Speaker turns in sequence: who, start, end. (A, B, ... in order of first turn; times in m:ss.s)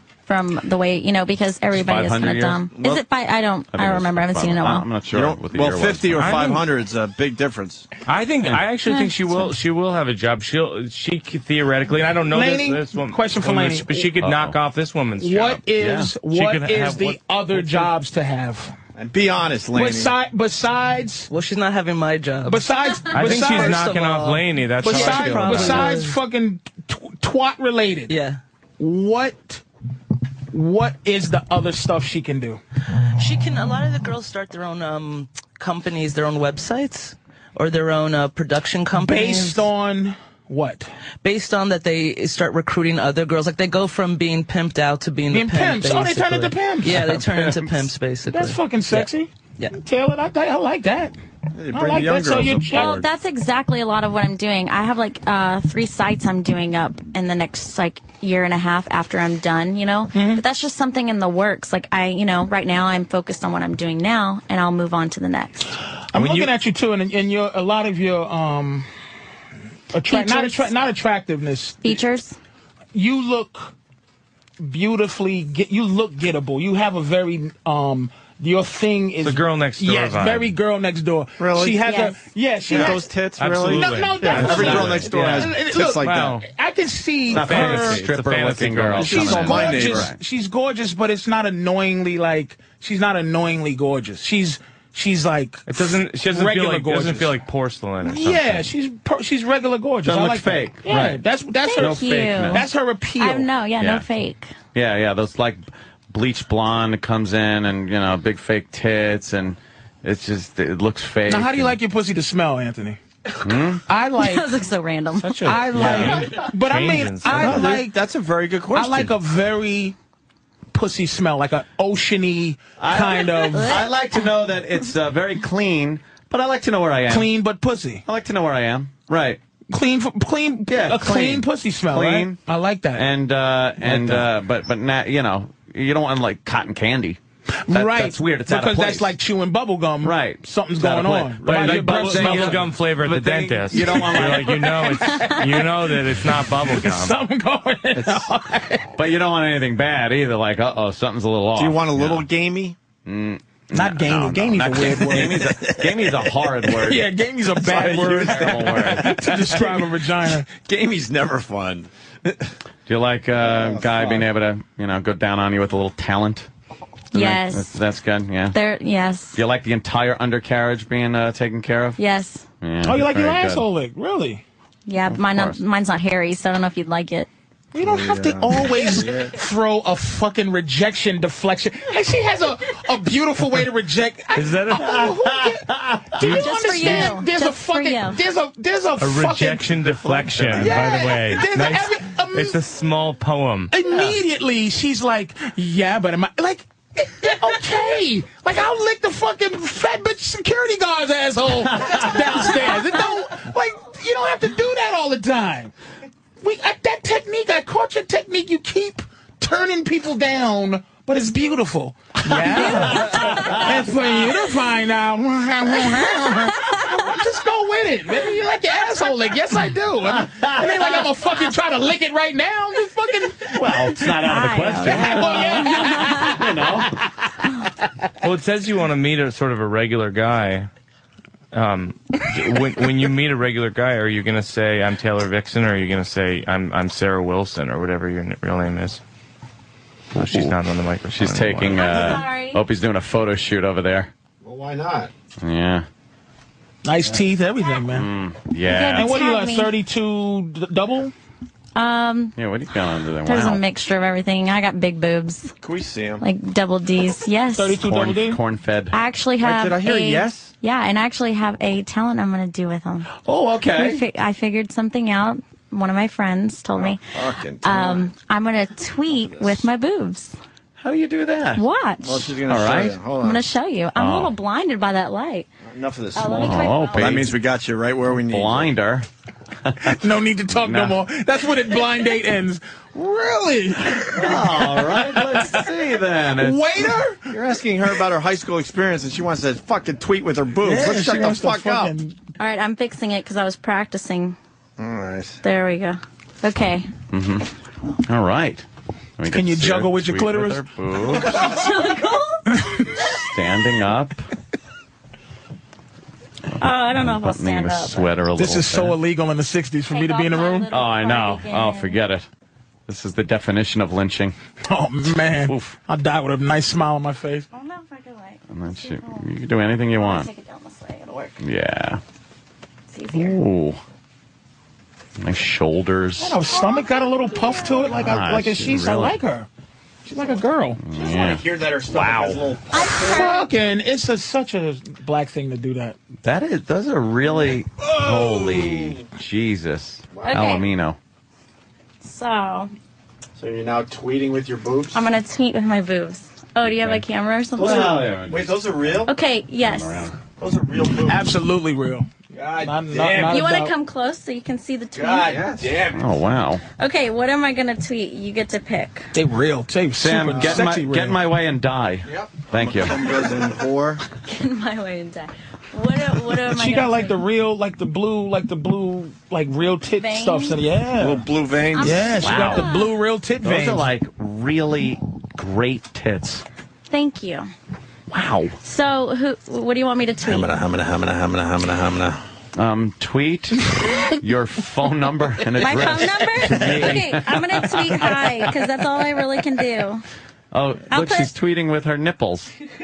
0:00.3-0:04.9 A
0:01.7-0:03.0 B
0:03.7-0:06.4 B
0:05.1-0:07.9 C
0:06.2-0:06.7 D
0:08.0-0:15.7 D
0:08.9-0:09.1 A
0:12.3-0:14.1 E
0:14.2-0:14.6 B
0:15.2-0:18.7 E
0:15.7-0:16.2 B
0:16.3-0:17.9 D
0:18.9-0:20.1 C
0:19.7-0:21.3 E
0:21.3-0:22.6 F
0:22.4-0:24.1 E
0:23.1-0:25.9 D
0:23.2-0:26.1 F
0:24.8-0:28.2 E
0:28.1-0:28.4 F
0:28.8-0:29.6 E
0:30.5-0:32.6 E
0:33.2-0:39.6 F
0:38.9-0:40.9 E
0:41.2-0:49.7 F
0:45.3-0:47.1 E
0:46.8-0:47.9 B
0:48.3-0:51.1 E
0:51.5-0:53.0 C
0:51.7-0:53.0 E
0:52.7-1:05.7 A
1:00.1-1:00.4 E
1:06.1-1:08.9 E
1:09.9-1:12.0 E
1:10.1-1:10.7 A
1:11.8-1:12.4 A
1:12.9-1:13.7 E
1:14.6-1:23.0 E
1:19.2-1:20.5 D
1:21.4-1:21.8 C
1:21.8-1:22.2 A
1:22.7-1:26.3 C
1:22.8-1:25.1 D
1:23.6-1:28.0 E
1:24.3-1:25.5 B
1:26.0-1:26.4 D
1:27.3-1:30.2 B
1:27.3-1:29.8 D
1:29.0-1:37.3 E
1:29.0-1:30.1 C
1:35.7-1:38.7 D
1:38.0-1:43.5 E
1:40.0-1:41.2 B
1:41.6-1:44.5 A
1:41.8-1:42.6 B
1:43.8-1:44.0 B
1:44.7-1:51.8 B
1:51.3-1:53.0 E
1:53.4-1:53.8 B
1:53.9-1:54.5 E
1:54.2-1:55.6 A
1:55.2-1:57.8 D
1:55.4-1:58.0 E
1:55.8-1:56.1 B
1:57.3-1:59.1 C
1:58.7-2:00.0 E
2:00.7-2:03.8 E
2:02.8-2:07.3 B
2:03.5-2:04.3 A
2:07.1-2:08.0 E
2:08.0-2:09.4 B
2:09.7-2:13.1 E
2:10.7-2:12.4 B
2:13.0-2:17.2 B
2:13.8-2:14.2 E
2:17.6-2:22.7 E
2:17.7-2:19.1 B
2:20.0-2:25.0 B
2:21.5-2:27.2 D
2:23.7-2:25.9 E
2:25.1-2:25.4 A
2:26.6-2:28.9 E
2:29.0-2:32.3 B
2:31.6-2:32.8 C
2:33.0-2:37.1 B
2:33.7-2:35.6 E
2:36.8-2:40.5 E
2:37.6-2:39.2 B
2:37.7-2:39.2 C
2:40.6-2:42.4 C
2:42.9-2:46.5 B
2:43.3-2:44.3 C
2:47.1-2:47.7 A
2:47.1-2:48.6 B
2:48.5-2:49.4 A
2:49.3-2:52.0 B
2:52.0-2:52.4 A
2:52.6-2:53.6 B
2:52.8-2:54.4 E
2:54.9-2:57.3 A
2:55.1-2:55.6 B
2:57.7-3:09.8 E
2:57.8-2:59.3 C
3:04.3-3:04.9 D
3:04.7-3:07.1 B
3:06.2-3:08.2 A
3:09.0-3:13.7 D
3:09.8-3:11.3 B
3:10.5-3:12.6 E
3:13.7-3:25.7 E
3:26.4-3:46.5 E
3:32.4-3:33.8 B
3:33.2-3:33.4 A
3:35.8-3:36.8 A
3:40.1-3:41.0 B
3:43.5-3:46.9 B
3:44.2-3:46.2 A
3:48.2-3:50.7 D
3:51.5-3:59.0 D
4:00.1-4:02.0 D
4:00.2-4:00.6 B
4:01.1-4:04.1 B
4:01.7-4:02.6 A
4:04.4-4:05.1 C
4:05.4-4:05.8 B
4:06.8-4:08.1 E
4:07.9-4:09.2 B
4:08.7-4:09.7 A
4:08.9-4:11.1 E
4:11.7-4:12.3 A
4:12.4-4:13.6 B
4:13.2-4:15.5 A
4:15.6-4:16.2 C
4:16.2-4:17.8 A
4:17.6-4:18.4 E
4:17.7-4:18.9 B
4:18.9-4:23.1 A
4:19.4-4:20.5 C
4:23.2-4:24.0 B
4:23.7-4:27.0 A
4:26.8-4:28.1 C
4:27.6-4:30.3 A
4:29.1-4:29.7 C
4:30.8-4:31.6 B
4:31.6-4:32.4 A
4:32.0-4:33.4 C
4:32.4-4:33.0 B
4:33.1-4:35.5 A
4:34.0-4:34.3 B
4:35.6-4:38.7 C
4:36.1-4:37.2 A
4:36.2-4:37.4 B
4:38.2-4:39.0 B
4:39.6-4:39.9 B
4:39.8-4:45.5 E
4:40.5-4:41.0 B
4:44.1-4:46.8 B
4:46.4-4:47.3 E
4:47.3-4:51.9 C
4:50.6-4:52.2 E
4:52.4-4:54.4 A
4:54.8-4:55.4 C
4:55.4-4:56.9 A
4:57.1-4:57.5 B
4:58.0-4:58.6 B
4:59.2-5:01.6 B
4:59.3-5:00.6 E
5:01.3-5:02.4 A
5:02.5-5:02.8 E
5:02.9-5:04.2 B
5:06.6-5:08.1 A
5:06.6-5:09.0 B
5:08.4-5:10.7 E
5:09.9-5:12.0 A
5:10.7-5:12.2 B
5:12.9-5:14.3 B
5:14.7-5:17.4 E
5:15.3-5:15.8 B
5:17.5-5:19.3 A
5:18.5-5:20.3 B
5:19.9-5:21.3 A
5:21.4-5:22.0 B
5:22.9-5:23.4 A
5:23.1-5:23.8 B
5:25.2-5:26.4 B
5:26.2-5:29.5 E
5:26.5-5:27.9 A
5:27.8-5:29.2 B
5:30.1-5:30.8 E
5:30.8-5:32.5 B
5:30.9-5:33.3 C
5:32.7-5:33.5 A
5:33.0-5:36.0 E
5:36.2-5:41.0 B
5:38.0-5:39.0 C
5:40.1-5:40.5 C
5:40.2-5:40.6 A
5:42.0-5:42.7 A
5:43.4-5:45.0 C
5:44.9-5:48.0 A
5:46.7-5:47.0 B
5:47.5-5:48.9 B
5:47.6-5:49.1 C
5:49.1-5:50.1 A
5:49.6-5:50.1 B
5:50.4-5:51.3 C
5:51.1-5:52.1 E
5:52.3-5:53.4 C
5:52.6-5:53.7 E
5:53.2-5:55.6 A
5:54.9-5:56.0 C
5:55.7-5:56.6 B
5:56.8-5:59.1 A
5:59.1-6:01.2 E
6:00.0-6:03.0 B
6:00.3-6:00.6 C
6:02.0-6:04.0 C
6:04.2-6:07.2 A
6:06.4-6:11.2 E
6:10.0-6:10.6 A
6:11.0-6:12.2 C
6:11.8-6:12.9 A
6:11.8-6:13.8 E
6:12.1-6:12.7 B
6:13.4-6:16.4 B
6:16.9-6:17.5 A
6:18.1-6:18.5 B
6:18.6-6:20.5 A
6:20.2-6:22.2 C
6:22.5-6:28.6 B
6:25.6-6:30.0 A
6:30.5-6:32.5 B
6:30.9-6:31.3 A